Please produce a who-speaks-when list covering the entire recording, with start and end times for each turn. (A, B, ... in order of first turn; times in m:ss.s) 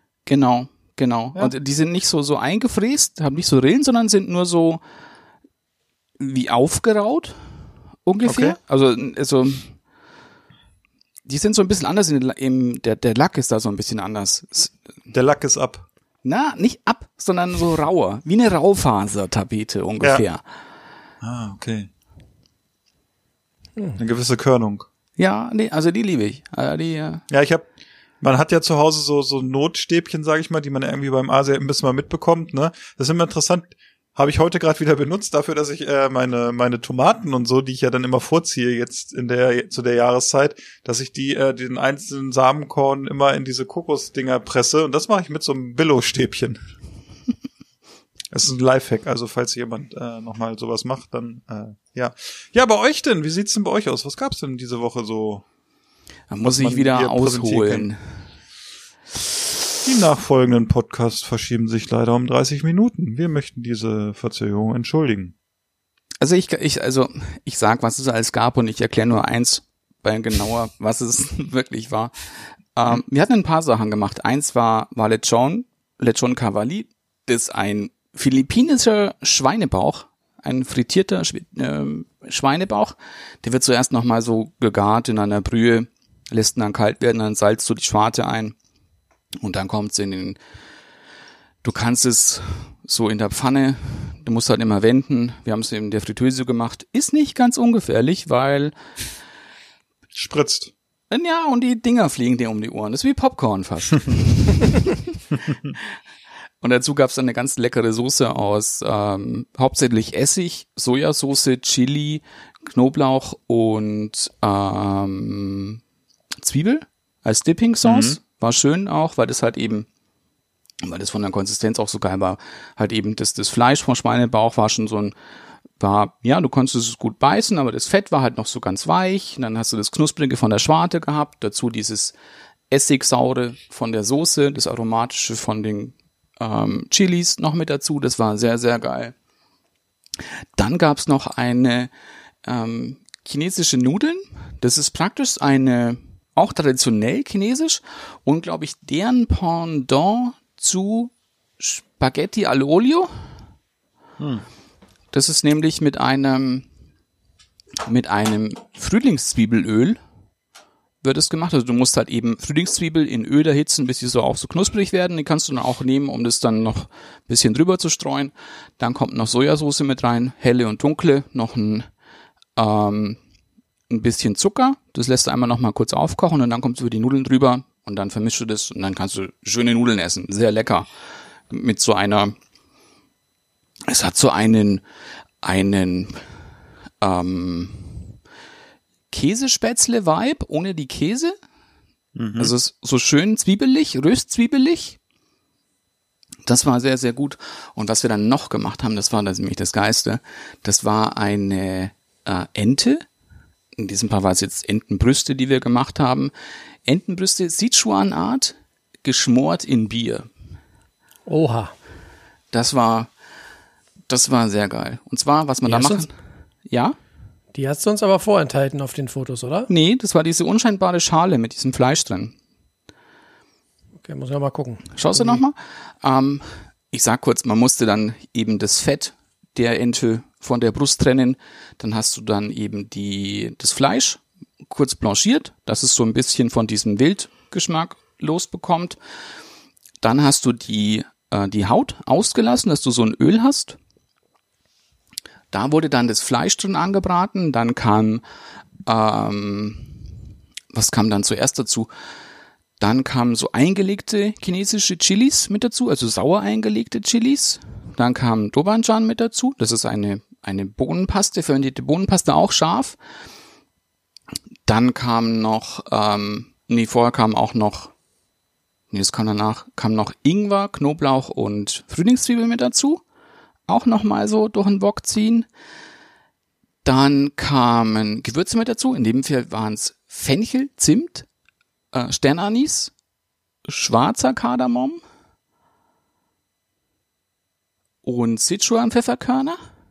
0:00.2-0:04.8 A
0:06.2-0:07.4 A
0:08.0-0:09.8 A
0:08.2-0:08.6 B
0:11.2-0:14.7 A
0:15.1-0:15.8 B
0:16.2-0:20.4 A
0:21.2-0:21.9 B
0:24.0-0:24.9 B
0:25.2-0:27.2 A
0:27.3-0:27.6 B
0:28.2-0:46.6 B
0:48.3-0:55.4 B
0:56.3-0:58.0 A
0:56.4-0:57.9 B
0:59.8-1:05.3 B
1:06.2-1:12.1 A
1:12.8-1:28.5 A
1:29.4-1:30.4 A
1:31.6-1:38.7 A
1:40.1-1:40.7 B
1:41.1-1:45.2 A
1:46.6-1:55.8 A
1:56.4-1:59.9 A
1:57.8-1:58.2 B
2:00.8-2:05.1 A
2:05.8-2:12.1 A
2:12.7-2:19.1 A
2:20.6-2:21.9 A
2:22.4-2:33.1 A
2:34.2-2:34.4 B
2:35.1-2:36.6 A
2:37.8-2:40.0 A
2:41.0-2:51.9 A
2:52.6-2:53.2 A
2:53.9-3:00.9 A
3:01.5-3:02.4 A
3:03.9-3:04.8 A
3:05.4-3:06.2 A
3:07.0-3:08.1 A
3:09.1-3:11.4 A
3:12.2-3:12.5 B
3:12.4-3:15.0 A
3:16.4-3:23.0 A
3:23.8-3:26.3 A
3:26.8-3:30.3 A
3:31.3-3:31.7 C
3:32.5-3:33.1 A
3:34.1-3:36.1 A
3:35.7-3:36.0 C
3:36.7-3:37.0 A
3:37.5-3:39.7 C
3:39.7-3:42.3 A
3:44.0-3:45.4 C
3:45.0-3:59.0 A
4:00.0-4:03.8 A
4:05.5-4:08.2 A
4:08.8-4:10.0 A
4:10.7-4:11.9 A
4:12.8-4:23.0 A
4:24.6-4:27.9 A
4:28.9-4:33.0 A
4:33.7-4:35.5 A
4:36.8-4:41.3 A
4:41.9-4:42.9 A
4:43.6-4:45.0 A
4:48.0-4:49.6 A